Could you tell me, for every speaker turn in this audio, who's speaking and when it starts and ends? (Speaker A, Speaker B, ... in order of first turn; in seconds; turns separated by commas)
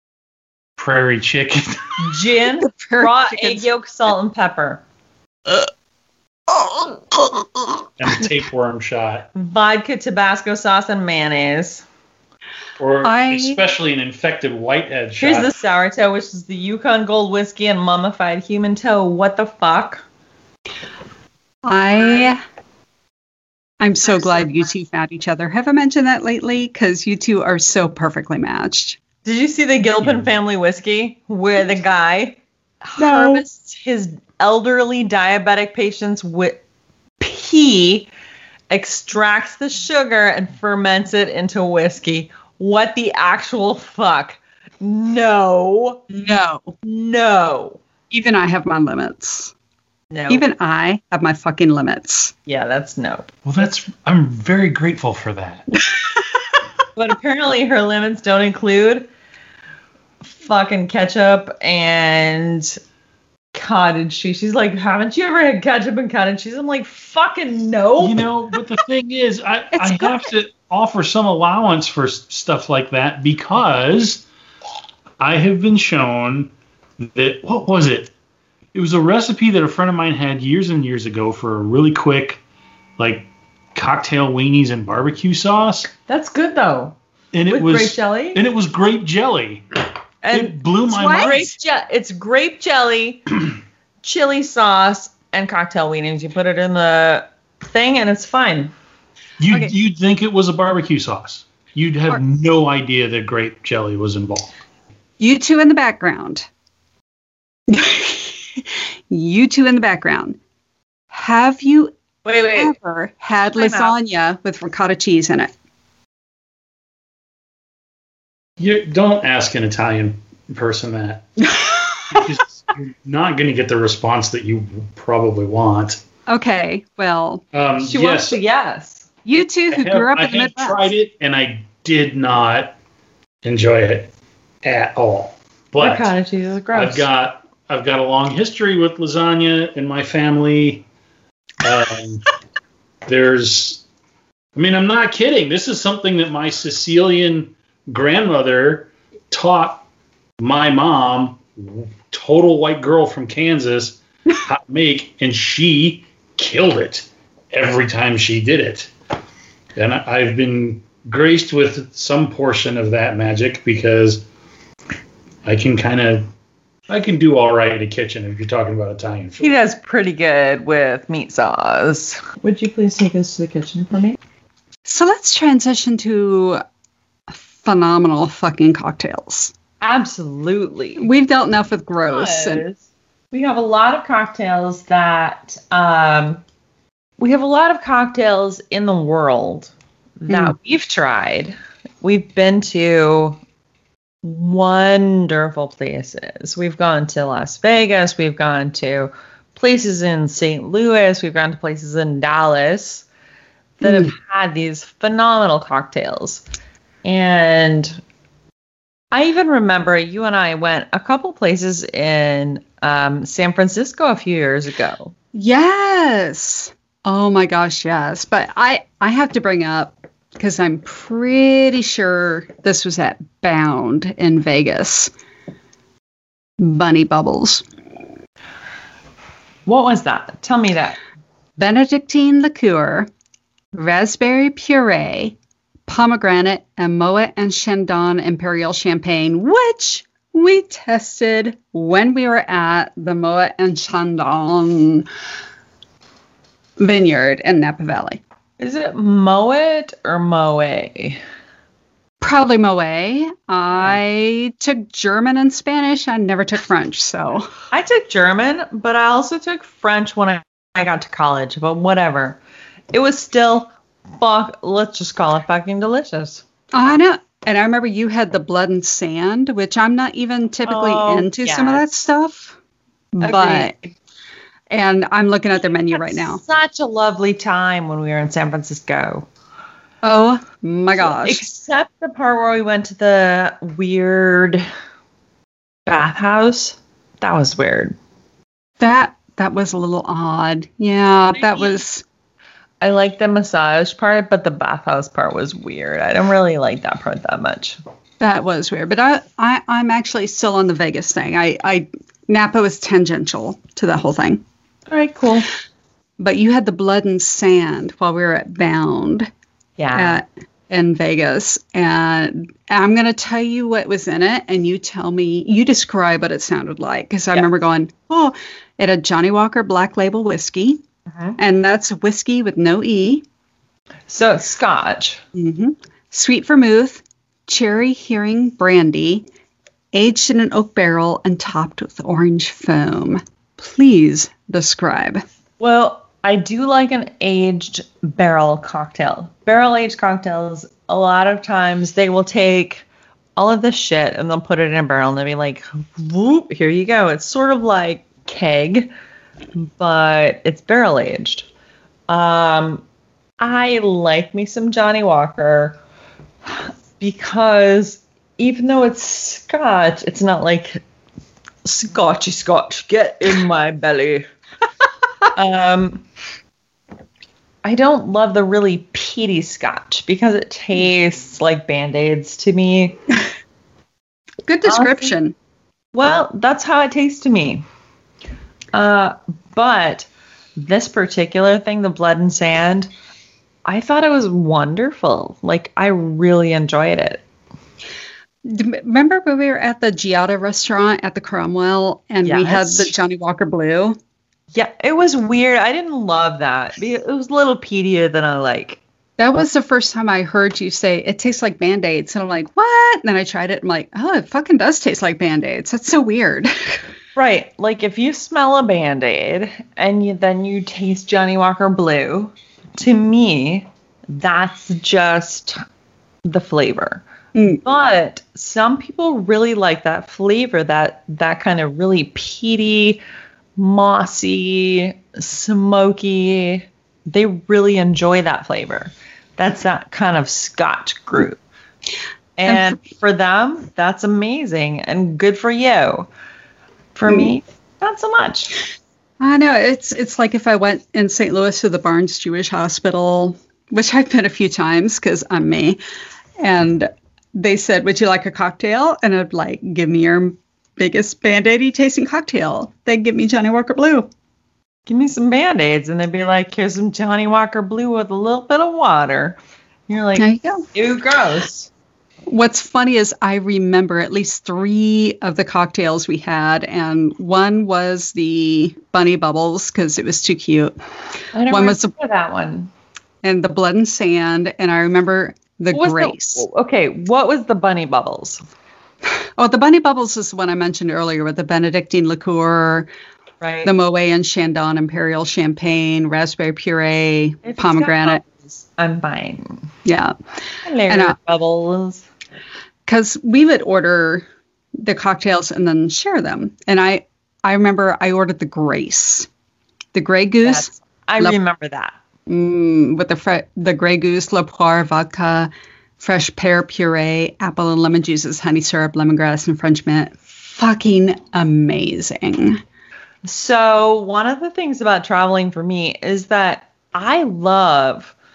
Speaker A: 0.8-2.0, Speaker B: 2.0-4.8, Speaker C: 2.6-3.7, Speaker A: 8.0-9.3, Speaker B: 9.3-11.8, Speaker A: 12.8-15.5, Speaker C: 13.0-13.6, Speaker B: 15.2-20.1, Speaker C: 21.6-22.4, Speaker C: 23.8-29.0, Speaker B: 29.2-36.6, Speaker C: 33.0-33.4, Speaker B: 37.2-38.1, Speaker B: 38.7-46.0, Speaker C: 46.1-46.8, Speaker B: 46.8-47.8, Speaker C: 48.1-49.5, Speaker B: 50.1-50.5, Speaker C: 50.3-52.3, Speaker B: 52.5-53.3, Speaker A: 53.5-55.7, Speaker B: 57.0-59.1, Speaker B: 60.2-62.8, Speaker B: 63.5-68.2, Speaker A: 68.0-74.2, Speaker C: 69.7-70.3, Speaker A: 75.2-78.1, Speaker A: 78.7-82.4, Speaker A: 83.0-85.9, Speaker B: 86.1-87.0, Speaker A: 87.3-89.6, Speaker B: 87.5-88.4, Speaker B: 90.2-93.2, Speaker A: 90.3-91.5, Speaker B: 94.0-98.7, Speaker A: 99.4-104.5, Speaker C: 105.2-106.5, Speaker C: 107.7-110.4, Speaker C: 111.1-112.0, Speaker B: 112.2-112.8, Speaker C: 112.5-115.5, Speaker B: 113.5-113.9, Speaker A: 118.6-121.4, Speaker C: 121.5-122.1, Speaker A: 122.1-126.0, Speaker C: 126.3-127.4, Speaker A: 127.5-128.4, Speaker B: 127.8-129.1, Speaker C: 129.2-130.9, Speaker A: 129.7-132.8, Speaker A: 133.4-134.1, Speaker A: 134.6-136.1, Speaker B: 135.8-137.1, Speaker A: 136.7-140.8, Speaker A: 141.6-142.3, Speaker A: 143.1-143.8, Speaker A: 144.6-149.9, Speaker A: 150.4-158.9, Speaker A: 159.8-164.2, Speaker A: 165.4-166.3, Speaker A: 166.9-169.5, Speaker B: 169.4-174.2, Speaker C: 174.8-176.6, Speaker C: 177.3-179.5, Speaker B: 179.8-181.1, Speaker C: 181.0-182.6, Speaker B: 182.1-186.4, Speaker B: 187.2-193.4, Speaker C: 190.3-190.6, Speaker B: 194.2-203.1, Speaker B: 203.8-206.4, Speaker C: 203.8-204.1, Speaker B: 207.0-208.0, Speaker B: 209.1-215.1, Speaker C: 215.3-225.1, Speaker C: 226.6-227.6, Speaker B: 229.7-231.0, Speaker C: 231.6-233.1, Speaker C: 233.7-245.1, Speaker C: 246.8-248.2, Speaker B: 248.6-251.2, Speaker C: 252.2-257.5, Speaker B: 257.7-262.4, Speaker B: 262.9-266.4, Speaker C: 266.7-272.6, Speaker B: 270.6-271.8, Speaker C: 273.1-273.8, Speaker B: 273.2-273.9, Speaker C: 274.7-276.4, Speaker B: 275.9-279.3, Speaker C: 280.0-281.5, Speaker B: 280.9-284.6, Speaker B: 285.9-288.0, Speaker C: 288.8-292.0, Speaker B: 291.4-291.8, Speaker B: 292.8-297.8, Speaker C: 298.2-304.4, Speaker B: 304.9-305.5, Speaker C: 306.2-309.3, Speaker B: 309.8-310.2, Speaker C: 309.9-320.8, Speaker C: 321.4-323.2, Speaker B: 324.1-325.2, Speaker C: 325.4-329.2, Speaker C: 329.9-335.2, Speaker B: 335.6-348.9, Speaker B: 349.6-351.5, Speaker B: 352.1-352.8, Speaker B: 353.4-355.8, Speaker B: 356.4-360.8, Speaker B: 361.6-364.3, Speaker B: 365.3-366.0, Speaker B: 367.6-373.0, Speaker C: 374.5-375.4, Speaker B: 374.7-375.1, Speaker B: 375.9-377.6, Speaker B: 378.7-382.9, Speaker B: 383.6-387.2, Speaker C: 388.4-394.0, Speaker B: 392.2-392.9, Speaker B: 394.5-398.8, Speaker C: 399.2-406.8, Speaker B: 407.1-415.6, Speaker B: 416.2-423.0, Speaker B: 423.6-431.4, Speaker B: 432.4-436.1, Speaker C: 432.5-432.8, Speaker B: 436.9-438.6, Speaker C: 439.2-445.8, Speaker C: 446.4-454.1, Speaker B: 454.9-461.7, Speaker C: 460.2-460.7, Speaker C: 462.3-470.8, Speaker B: 471.3-472.7, Speaker C: 471.5-471.9, Speaker C: 473.2-476.4, Speaker B: 475.7-478.4, Speaker C: 479.4-482.9, Speaker B: 483.4-483.7, Speaker C: 483.6-488.2, Speaker B: 487.4-489.7, Speaker C: 489.9-490.1, Speaker B: 490.6-492.1, Speaker C: 490.9-491.2, Speaker C: 492.9-494.3, Speaker C: 494.8-499.3, Speaker C: 499.9-501.4, Speaker B: 500.4-502.0, Speaker C: 502.3-512.6, Speaker B: 513.2-518.1